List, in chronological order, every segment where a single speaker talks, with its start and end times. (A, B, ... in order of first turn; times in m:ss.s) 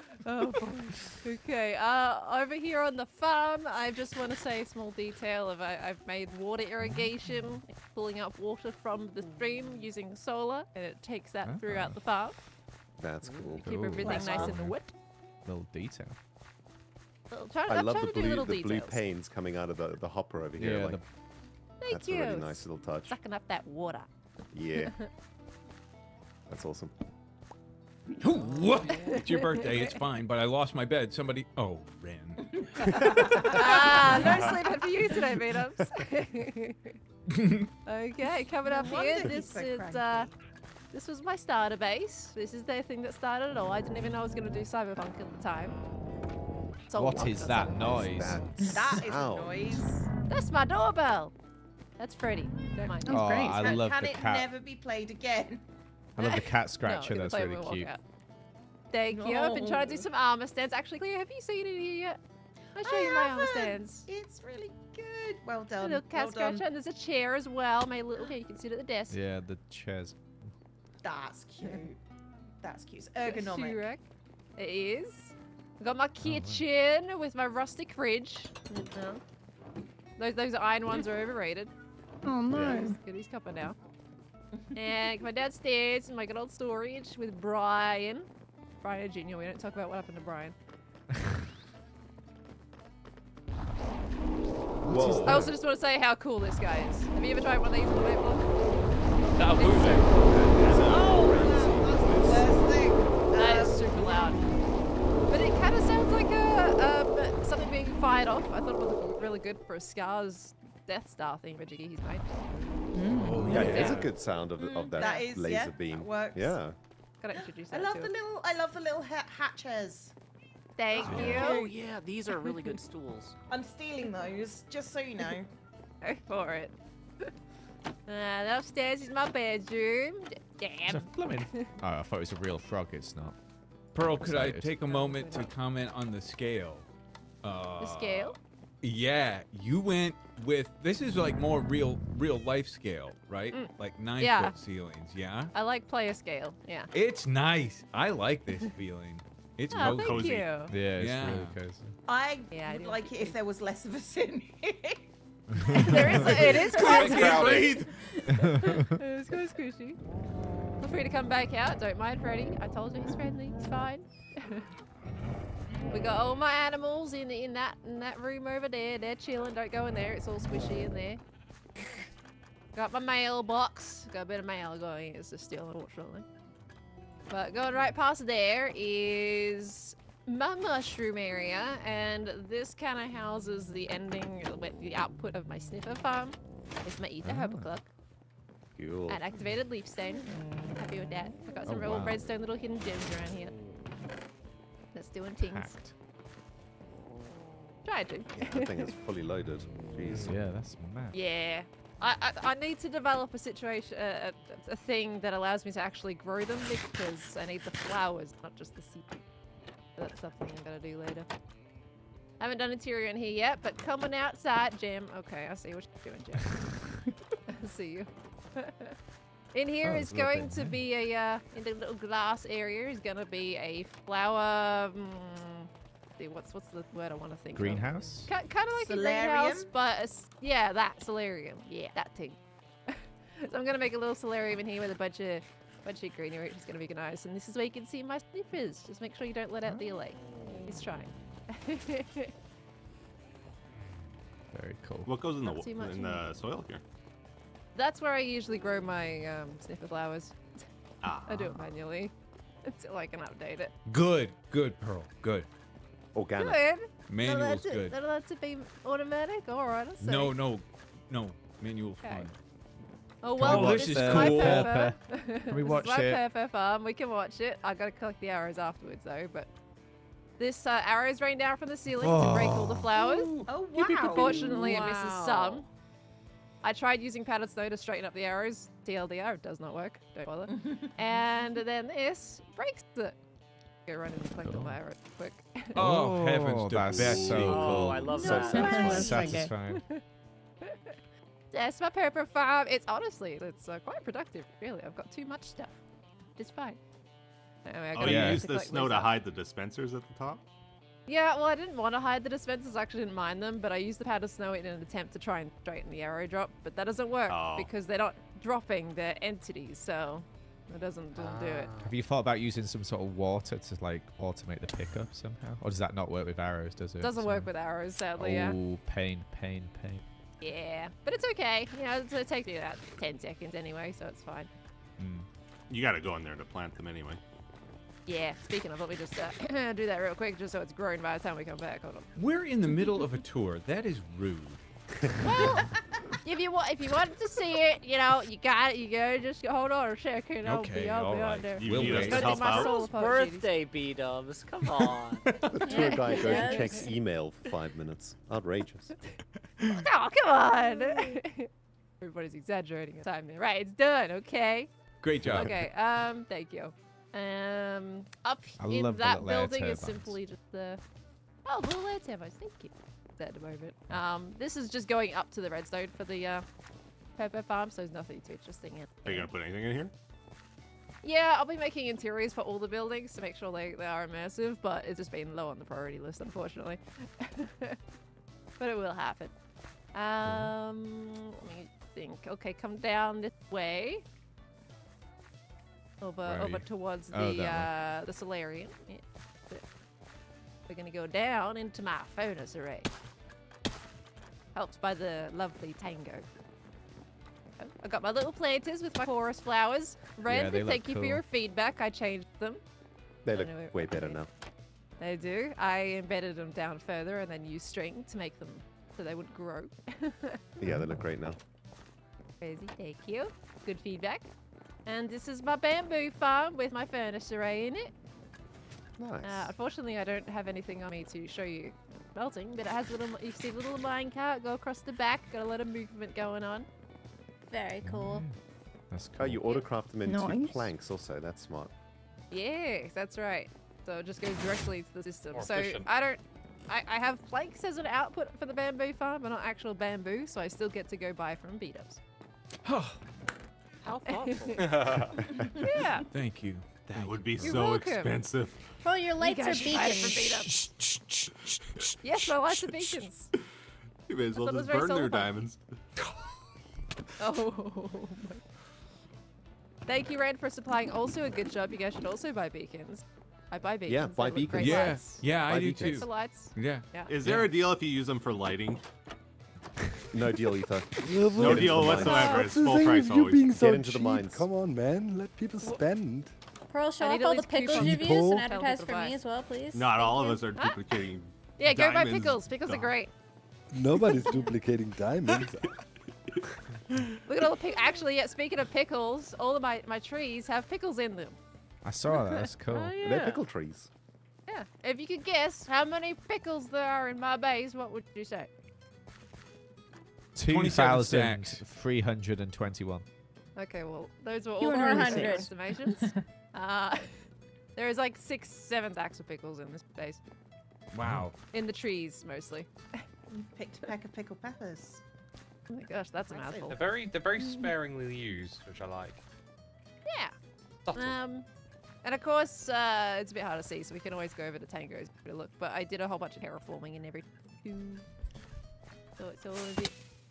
0:00.2-0:12.4 A
0:11.4-0:12.0 B
0:13.0-0:14.6 C
0:13.2-0:13.6 D
0:13.6-0:14.9 A
0:13.6-0:14.8 B
0:15.4-0:16.2 B
0:17.3-0:19.0 A
0:17.6-0:21.0 C
0:20.6-0:21.0 B
0:21.8-0:24.1 A
0:21.9-0:23.1 C
0:24.5-0:25.0 C
0:24.8-0:25.1 A
0:26.5-0:26.9 C
0:28.2-0:32.4 E
0:28.9-0:30.0 A
0:32.4-0:34.9 F
0:32.8-0:33.4 C
0:33.5-0:36.9 A
0:34.2-0:34.6 G
0:37.3-0:37.7 E
0:37.8-0:40.3 A
0:38.6-0:40.3 F
0:40.9-0:45.8 A
0:46.9-0:48.3 A
0:47.0-0:48.7 B
0:47.3-0:49.8 C
0:48.7-0:50.0 F
0:50.3-0:51.3 A
0:52.0-0:53.5 A
0:53.1-0:53.6 H
0:53.1-0:54.5 B
0:53.5-0:55.6 F
0:56.2-0:57.9 B
0:56.2-0:58.0 A
0:58.9-1:02.2 A
0:59.1-1:00.0 F
1:02.7-1:04.1 A
1:02.8-1:06.6 F
1:05.8-1:09.2 A
1:09.1-1:10.5 B
1:11.0-1:12.0 F
1:12.6-1:13.9 F
1:13.2-1:14.0 A
1:14.6-1:19.2 A
1:16.2-1:16.6 B
1:20.2-1:21.7 A
1:22.2-1:23.0 H
1:22.5-1:22.8 C
1:22.5-1:23.8 A
1:24.7-1:28.3 A
1:28.8-1:30.5 A
1:34.8-1:35.6 C
1:34.9-1:35.4 B
1:35.2-1:38.7 A
1:39.3-1:40.4 G
1:39.6-1:40.4 A
1:40.4-1:42.4 I
1:40.8-1:44.3 F
1:43.3-1:44.5 A
1:45.3-1:52.4 A
1:52.9-1:53.6 H
1:53.1-1:54.1 E
1:53.4-1:54.0 A
1:53.5-1:56.8 C
1:54.6-1:56.6 F
1:57.2-1:58.2 A
1:57.3-2:00.1 F
2:00.8-2:01.6 A
2:00.9-2:01.7 F
2:01.1-2:03.3 D
2:03.5-2:05.5 F
2:06.0-2:07.3 A
2:08.1-2:11.7 A
2:10.9-2:13.4 B
2:13.9-2:14.7 B
2:13.9-2:16.8 E
2:14.8-2:15.5 A
2:17.4-2:25.5 E
2:17.8-2:18.4 A
2:23.5-2:24.6 A
2:25.5-2:26.9 A
2:26.9-2:31.6 E
2:29.7-2:30.8 A
2:29.9-2:30.5 I
2:30.7-2:32.0 B
2:32.0-2:35.0 F
2:32.5-2:33.4 A
2:35.8-2:37.6 F
2:35.8-2:40.0 A
2:36.3-2:37.9 G
2:36.6-2:38.1 E
2:38.3-2:38.9 B
2:40.8-2:44.6 A
2:45.9-2:51.2 A
2:52.7-2:56.2 A
2:57.3-3:07.8 A
3:07.2-3:07.7 B
3:08.8-3:09.2 C
3:09.1-3:13.6 A
3:11.6-3:12.2 B
3:14.9-3:15.8 A
3:15.4-3:15.9 B
3:17.8-3:18.9 A
3:18.3-3:20.3 C
3:20.2-3:21.2 B
3:21.1-3:29.0 A
3:30.0-3:31.3 A
3:32.4-3:39.0 A
3:39.5-4:02.3 A
3:39.8-3:40.8 B
3:47.5-3:48.3 B
3:48.8-3:49.7 F
4:04.5-4:05.1 B
4:05.0-4:06.8 I
4:05.4-4:06.3 A
4:07.7-4:10.6 A
4:11.0-4:11.7 I
4:11.2-4:13.7 A
4:13.8-4:15.5 E
4:16.1-4:16.7 C
4:16.4-4:20.4 A
4:17.1-4:18.0 E
4:20.0-4:22.3 E
4:22.0-4:22.3 A
4:23.2-4:29.5 A
4:23.4-4:26.2 B
4:23.4-4:24.8 E
4:30.4-4:35.6 A
4:31.9-4:32.9 B
4:33.0-4:35.6 D
4:33.5-4:34.4 F
4:36.6-4:43.2 A
4:43.8-4:45.8 A
4:44.4-4:44.8 B
4:45.7-4:49.8 B
4:45.7-4:48.0 E
4:47.3-4:48.8 D
4:48.1-4:50.0 A
4:48.2-4:49.3 C
4:48.4-4:49.6 H
4:50.6-4:50.9 A
4:51.5-4:55.7 A
4:56.4-4:56.8 A
4:57.6-4:59.2 A
4:57.9-5:00.4 I
4:58.0-4:58.4 B
5:01.1-5:11.7 A
5:07.3-5:07.7 I
5:11.1-5:11.9 G
5:11.8-5:17.5 B
5:17.0-5:18.6 A
5:18.1-5:20.0 B
5:20.4-5:24.5 A
5:25.0-5:25.3 B
5:25.7-5:27.2 I
5:28.0-5:32.1 A
5:32.2-5:34.6 E
5:32.7-5:33.0 A
5:35.2-5:35.7 A
5:36.2-5:43.5 A
5:40.4-5:42.4 E
5:41.5-5:42.7 I
5:42.5-5:45.2 D
5:45.3-5:45.6 E
5:45.5-5:48.9 C
5:45.7-5:46.9 J
5:45.7-5:46.8 A
5:49.7-5:54.7 A
5:55.0-5:55.7 E
5:55.2-6:00.8 A
5:58.6-6:00.1 B
6:01.4-6:06.4 A
6:07.2-6:09.3 A
6:09.0-6:09.9 I
6:11.0-6:17.8 A
6:18.6-6:19.3 A
6:19.9-6:24.0 A
6:20.2-6:20.5 B
6:26.0-6:29.6 A
6:26.3-6:26.6 E
6:27.1-6:27.7 B
6:30.7-6:32.9 A
6:34.5-6:36.2 A
6:37.6-6:42.6 A
6:40.2-6:41.2 B
6:43.2-6:44.3 C
6:43.3-6:44.2 A
6:45.0-6:50.4 A
6:50.6-6:51.4 C
6:50.7-6:51.0 B
6:52.4-6:54.2 A
6:54.8-6:57.9 A
6:59.0-6:59.5 C
6:59.2-7:06.7 A
7:07.5-7:08.2 J
7:07.8-7:08.3 B
7:08.9-7:09.5 B
7:09.2-7:11.7 C
7:10.0-7:10.7 H
7:12.3-7:22.0 A
7:15.3-7:15.9 G
7:22.6-7:23.0 E
7:23.8-7:25.0 D
7:24.1-7:24.8 A
7:24.6-7:25.2 G
7:25.6-7:26.1 A
7:26.1-7:27.2 E
7:26.8-7:28.6 I
7:27.4-7:28.3 A
7:28.8-7:30.4 J
7:29.2-7:30.5 A
7:30.1-7:31.3 E
7:32.0-7:33.3 A
7:34.1-7:35.6 I
7:34.3-7:35.4 A
7:37.2-7:38.4 A
7:39.8-7:47.2 A
7:43.9-7:46.2 C
7:44.6-7:47.5 E
7:47.0-7:48.8 I
7:50.1-7:52.3 C
7:51.0-7:56.3 K
7:51.3-7:53.5 I
7:52.0-7:52.4 J
7:53.5-7:54.4 C
7:56.7-8:00.4 J
7:57.0-7:59.2 A
7:59.7-8:03.0 I
8:00.5-8:00.8 A
8:01.6-8:03.1 A
8:03.7-8:05.6 K
8:07.2-8:11.4 A
8:11.8-8:12.9 B
8:12.7-8:13.5 D
8:13.0-8:13.9 C
8:14.5-8:18.5 A
8:20.3-8:23.0 B
8:20.4-8:21.6 E
8:23.6-8:27.2 A
8:24.6-8:26.1 H
8:24.6-8:25.5 J
8:27.7-8:30.2 A
8:30.9-8:31.4 E
8:31.5-8:33.0 A
8:33.3-8:35.0 F
8:35.7-8:37.7 A
8:36.3-8:36.8 F
8:36.7-8:39.2 G
8:40.0-8:40.4 A
8:40.8-8:41.2 G
8:40.9-8:41.4 A
8:42.0-8:48.0 A
8:49.2-8:49.9 A